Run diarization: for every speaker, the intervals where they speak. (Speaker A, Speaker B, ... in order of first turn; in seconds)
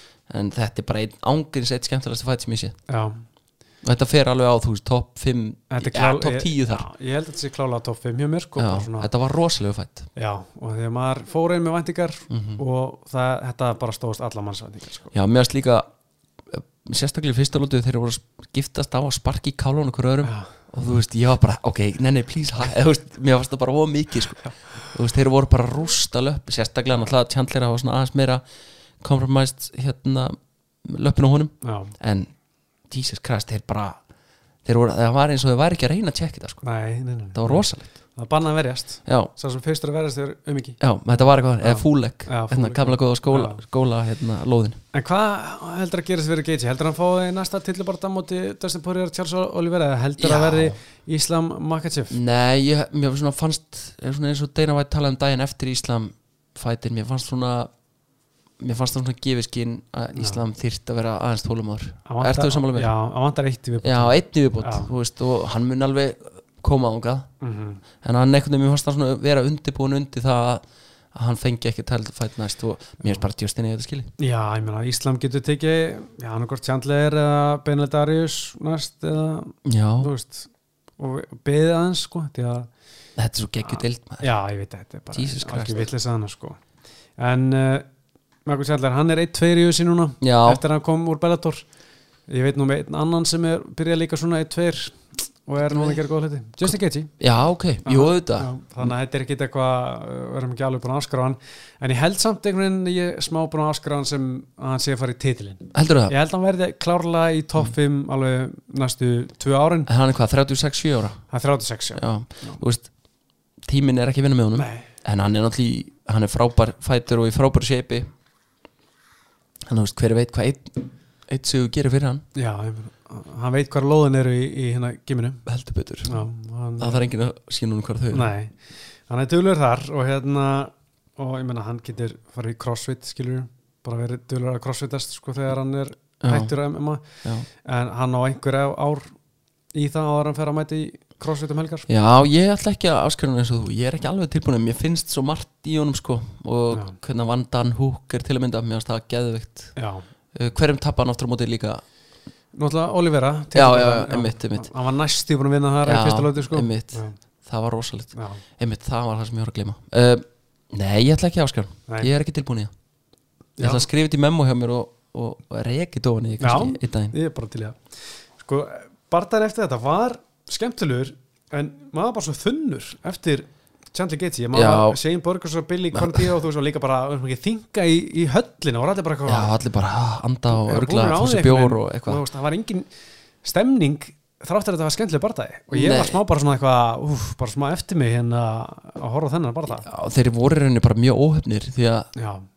Speaker A: 0.3-2.8, 3.8-6.9, 8.6-10.1, 12.3-12.6, 15.1-15.8, 16.5-28.4, 29.0-32.3, 32.9-34.0, 34.6-36.6, 37.3-37.9, 39.0-39.3, 40.8-44.8, 50.2-50.8, 52.1-57.7, 58.6-62.9, 63.8-67.3, 68.0-74.1, 79.7-80.1, 83.2-84.3, 85.1-85.9, 90.2-90.6, 95.7-96.0, 96.6-98.5, 105.7-106.1, 109.9-111.2, 112.0-112.9, 113.6-118.1, 119.7-122.2, 125.5-126.2, 126.8-128.3, 136.2-136.5, 141.9-149.7, 150.3-151.8, 153.5-154.7, 155.8-162.7, 163.6-167.1, 174.5-175.0, 175.9-176.3, 179.3-182.2, 185.7-186.2, 189.8-192.1
Speaker B: 2.9-3.2, 5.7-9.1, 10.2-15.1, 20.2-20.5, 31.6-31.9, 36.6-40.8, 41.6-43.6, 44.9-52.2, 60.1-60.4, 62.0-64.9, 67.4-67.8, 74.2-82.7, 83.7-86.6, 87.2-87.9, 88.5-91.6, 92.3-97.1, 97.8-109.9, 111.3-112.6, 114.5-114.9, 122.3-125.4, 126.0-127.0, 128.1-128.6, 129.1-139.1, 139.7-141.9, 146.7-147.0, 149.8-150.1, 152.6-157.2, 158.1-158.4, 163.6-163.9, 166.4-179.5, 180.5-182.9, 183.4-189.9, 192.1-192.4